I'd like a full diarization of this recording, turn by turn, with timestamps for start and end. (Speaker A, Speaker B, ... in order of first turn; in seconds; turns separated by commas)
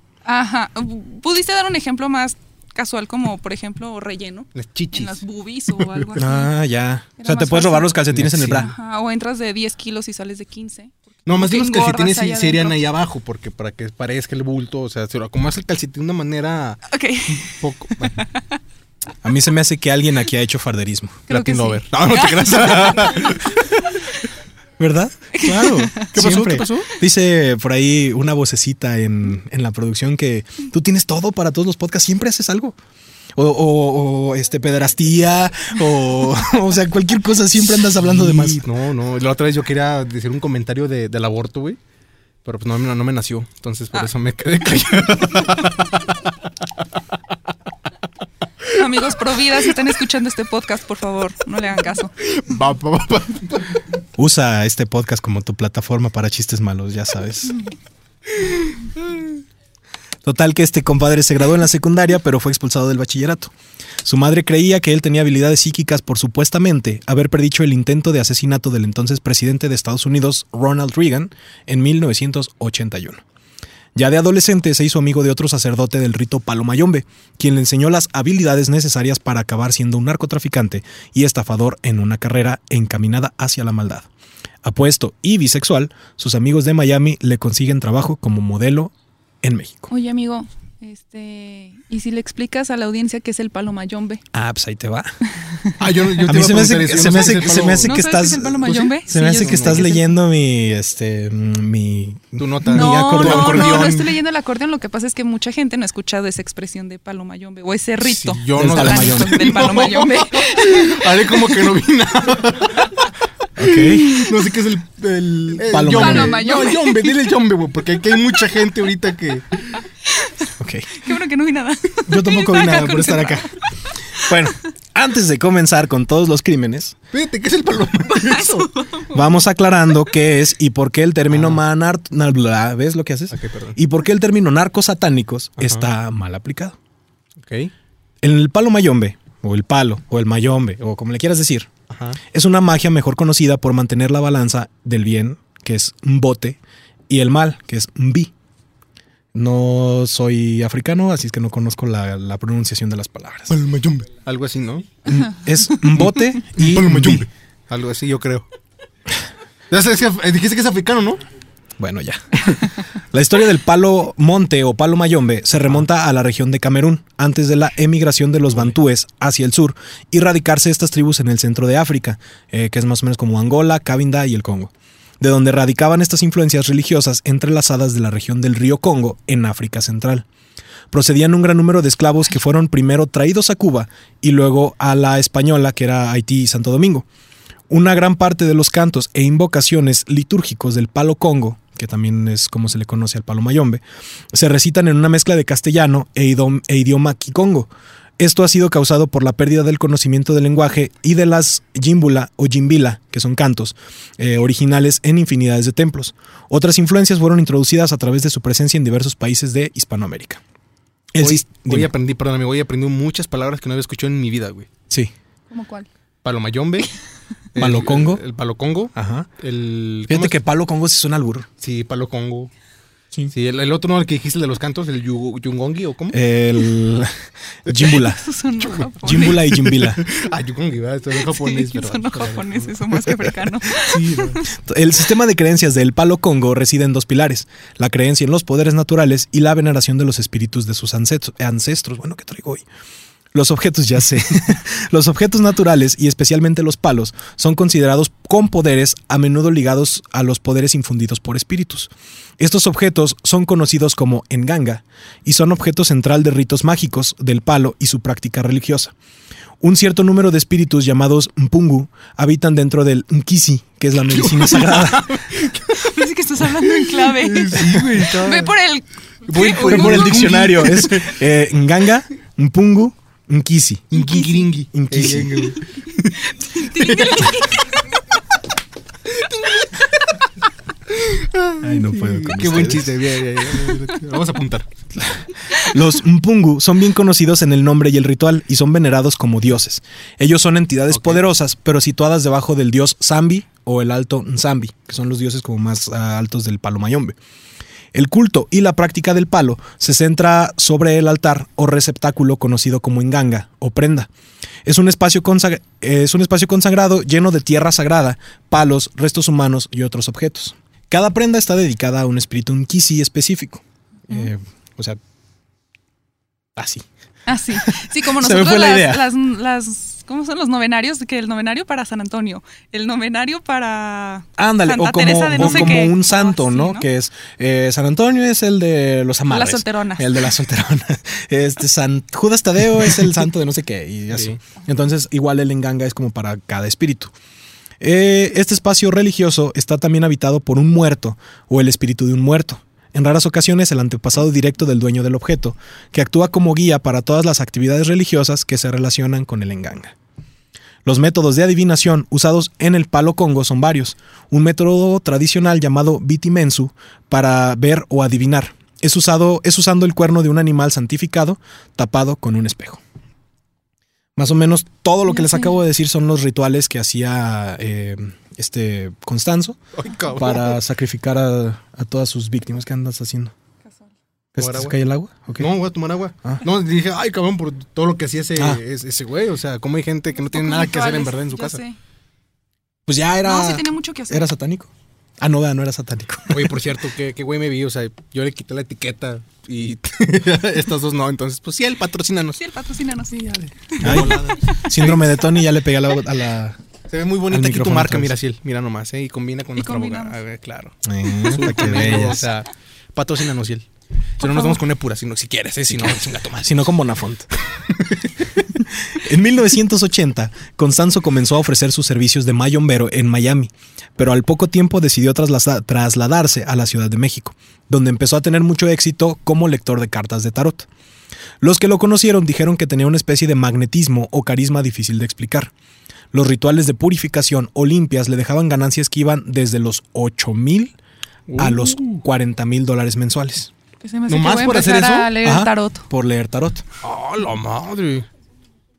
Speaker A: 0.2-6.5, Speaker B: 4.5-5.2, Speaker B: 5.7-6.2, Speaker C: 6.2-8.7, Speaker A: 7.2-8.0, Speaker B: 8.1-8.7, Speaker A: 8.5-12.8, Speaker B: 11.2-18.2, Speaker A: 16.9-17.6, Speaker A: 18.1-18.4, Speaker C: 19.2-21.3, Speaker A: 21.3-23.4, Speaker B: 21.3-24.0, Speaker C: 24.8-32.7, Speaker A: 25.3-26.1, Speaker B: 26.0-26.9, Speaker C: 33.4-38.6, Speaker B: 37.8-41.8, Speaker B: 42.4-46.8, Speaker A: 48.7-52.1, Speaker B: 52.2-53.8, Speaker C: 54.2-57.6, Speaker B: 58.5-59.0, Speaker C: 60.2-63.5, Speaker C: 64.0-73.2, Speaker C: 73.9-84.1, Speaker C: 84.6-89.9, Speaker A: 89.9-94.2, Speaker C: 94.3-95.2, Speaker A: 95.5-95.7, Speaker B: 95.8-97.9, Speaker C: 96.2-104.0, Speaker A: 97.8-100.0, Speaker B: 98.6-100.0, Speaker B: 102.4-104.1, Speaker A: 102.7-111.7, Speaker B: 108.0-119.8, Speaker C: 108.5-109.4, Speaker C: 113.6-114.3, Speaker C: 115.7-116.4, Speaker A: 115.8-117.2, Speaker A: 120.0-123.6, Speaker C: 120.6-120.9, Speaker C: 122.0-123.5, Speaker C: 124.2-127.0, Speaker B: 127.1-128.7, Speaker A: 128.1-129.4, Speaker C: 129.1-136.8, Speaker B: 131.3-131.6, Speaker B: 133.3-133.8, Speaker B: 135.6-135.9, Speaker B: 137.4-137.7, Speaker C: 138.2-141.7, Speaker B: 141.9-142.2, Speaker C: 142.3-148.3, Speaker C: 149.3-153.6, Speaker B: 153.5-154.9, Speaker C: 155.1-157.3, Speaker B: 155.9-158.5, Speaker B: 159.7-161.2, Speaker C: 161.8-180.2, Speaker C: 180.9-187.1, Speaker C: 187.7-210.4, Speaker C: 211.1-211.9, Speaker B: 211.2-214.7, Speaker A: 215.5-215.9, Speaker B: 216.2-216.9, Speaker B: 217.5-220.4, Speaker C: 217.6-218.2, Speaker C: 218.9-219.3, Speaker C: 220.1-221.5, Speaker B: 221.6-222.5, Speaker B: 223.3-226.2, Speaker C: 226.1-227.1, Speaker C: 227.7-228.2, Speaker A: 227.8-229.6, Speaker C: 229.0-230.1, Speaker B: 229.7-234.4, Speaker A: 231.2-234.4, Speaker C: 234.6-242.6, Speaker C: 243.3-258.9, Speaker C: 259.6-265.2, Speaker B: 264.1-265.9, Speaker A: 265.8-270.7, Speaker B: 266.5-268.5, Speaker B: 269.3-271.1, Speaker C: 269.6-274.0, Speaker B: 273.9-277.4, Speaker A: 273.9-274.5, Speaker C: 274.7-275.5, Speaker A: 276.2-277.7, Speaker B: 279.1-279.8, Speaker B: 280.9-284.7, Speaker C: 281.6-283.0, Speaker C: 285.0-297.1, Speaker B: 290.9-291.2, Speaker C: 297.9-304.1, Speaker C: 304.6-315.0, Speaker C: 316.6-316.8, Speaker A: 317.3-326.8, Speaker C: 317.5-319.1, Speaker C: 324.4-337.1, Speaker B: 325.4-325.8, Speaker A: 329.3-330.2, Speaker C: 337.8-349.9, Speaker C: 350.8-362.8, Speaker C: 364.1-369.6, Speaker A: 365.1-365.5, Speaker B: 369.7-370.6, Speaker C: 370.1-373.3, Speaker C: 374.3-375.5, Speaker B: 374.4-374.8, Speaker B: 375.4-381.6, Speaker A: 380.3-381.8, Speaker C: 382.9-386.5, Speaker A: 383.2-384.3, Speaker B: 386.3-392.4, Speaker A: 392.4-394.6, Speaker B: 393.1-395.2, Speaker C: 393.8-396.6, Speaker B: 396.9-403.7, Speaker C: 397.3-398.1, Speaker A: 399.6-400.2, Speaker C: 400.8-402.2, Speaker B: 404.2-406.7, Speaker A: 404.2-404.6, Speaker C: 406.4-407.3, Speaker B: 407.5-408.1, Speaker C: 408.8-420.7, Speaker C: 421.4-425.5, Speaker C: 426.1-430.7, Speaker B: 431.3-432.0, Speaker C: 431.4-433.5, Speaker A: 433.8-435.9, Speaker B: 434.1-435.1, Speaker C: 435.2-436.6, Speaker B: 436.8-438.1